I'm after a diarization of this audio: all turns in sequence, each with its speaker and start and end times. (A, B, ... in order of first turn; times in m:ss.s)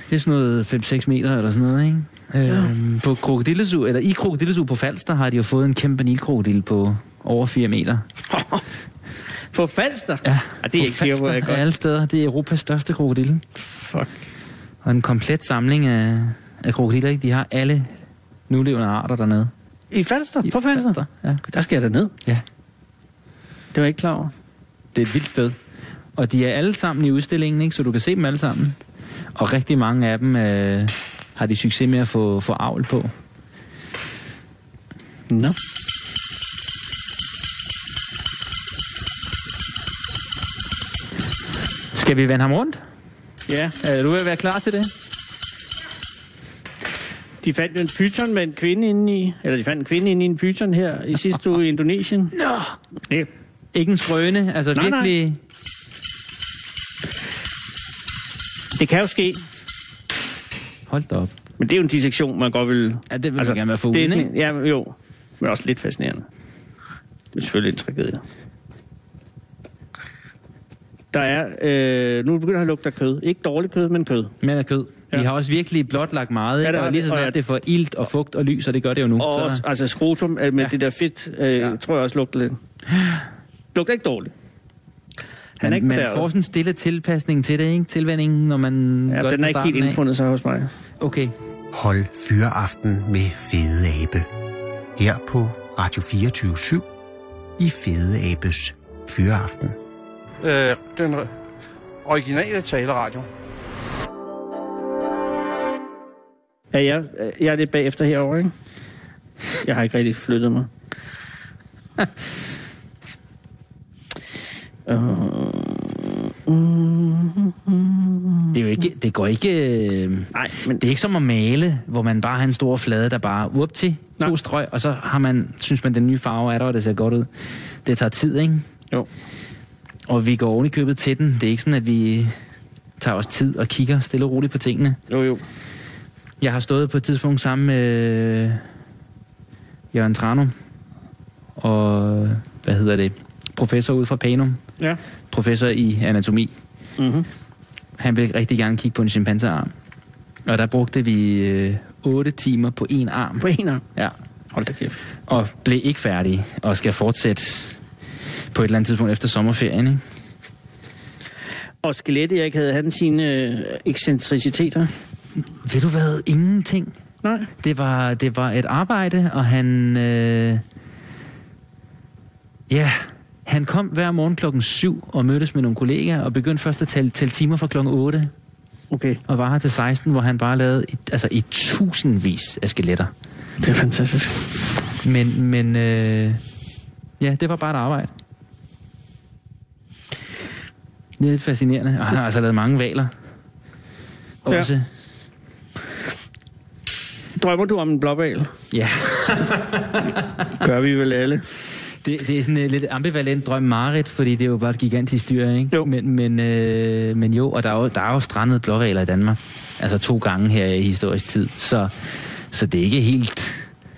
0:00.1-0:08.0 A
0:08.3-0:08.6 B
0:09.5-0:11.6 B
0:10.2-0:13.4 A
0:13.6-0:14.2 B
0:14.8-0:17.9 A
0:18.5-0:19.5 A
0:19.9-0:22.1 B
0:20.5-0:21.4 A
0:23.7-0:24.3 B
0:25.0-0:25.6 A
0:26.2-0:28.8 A
0:29.4-0:33.1 A
0:35.3-0:35.6 B
0:41.9-0:42.8 A
0:43.5-0:43.8 B
0:43.8-0:44.9 A
0:47.4-0:52.3 B
0:52.4-0:52.8 A
0:53.7-0:55.4 A
0:54.8-0:55.1 B
0:58.8-0:59.4 B
1:00.9-1:01.3 A
1:01.6-1:06.3 B
1:03.1-1:04.3 A
1:07.4-1:08.2 B
1:11.1-1:14.3 B
1:14.4-1:19.6 A
1:16.6-1:17.4 B
1:19.2-1:22.6 B
1:23.0-1:23.2 A
1:23.8-1:24.3 B
1:25.6-1:26.3 B
1:25.6-1:30.0 A
1:29.1-1:30.7 B
1:31.0-1:31.3 A
1:31.7-1:34.3 C
1:35.0-1:36.9 C
1:37.6-1:39.8 C
1:40.4-1:41.3 D
1:42.0-1:43.3 D
1:46.7-1:48.5 B
1:49.6-1:50.7 B
1:54.9-1:58.6 B
1:58.5-2:07.3 A
2:00.3-2:00.8 B
2:07.8-2:08.6 A
2:10.1-2:12.3 A
2:13.0-2:15.0 A
2:15.1-2:15.4 B
2:16.4-2:18.6 A
2:19.9-2:20.5 A
2:21.6-2:24.6 A
2:25.3-2:26.5 A
2:27.0-2:27.3 B
2:28.0-2:29.7 A
2:30.5-2:34.1 A
2:33.4-2:33.8 B
2:34.5-2:35.0 B
2:35.3-2:37.8 A
2:38.5-2:40.0 A
2:41.8-2:44.9 B
2:45.6-2:46.9 A
2:47.2-2:47.5 B
2:47.6-2:50.6 A
2:52.7-2:58.3 A
2:58.9-2:59.2 B
2:59.3-3:03.1 A
3:03.6-3:04.5 B
3:05.0-3:06.4 A
3:07.2-3:08.1 A
3:11.2-3:13.1 A
3:14.4-3:14.8 A
3:17.4-3:18.5 B
3:18.7-3:20.2 A
3:20.5-3:21.4 B
3:22.0-3:31.9 A
3:32.5-3:33.6 A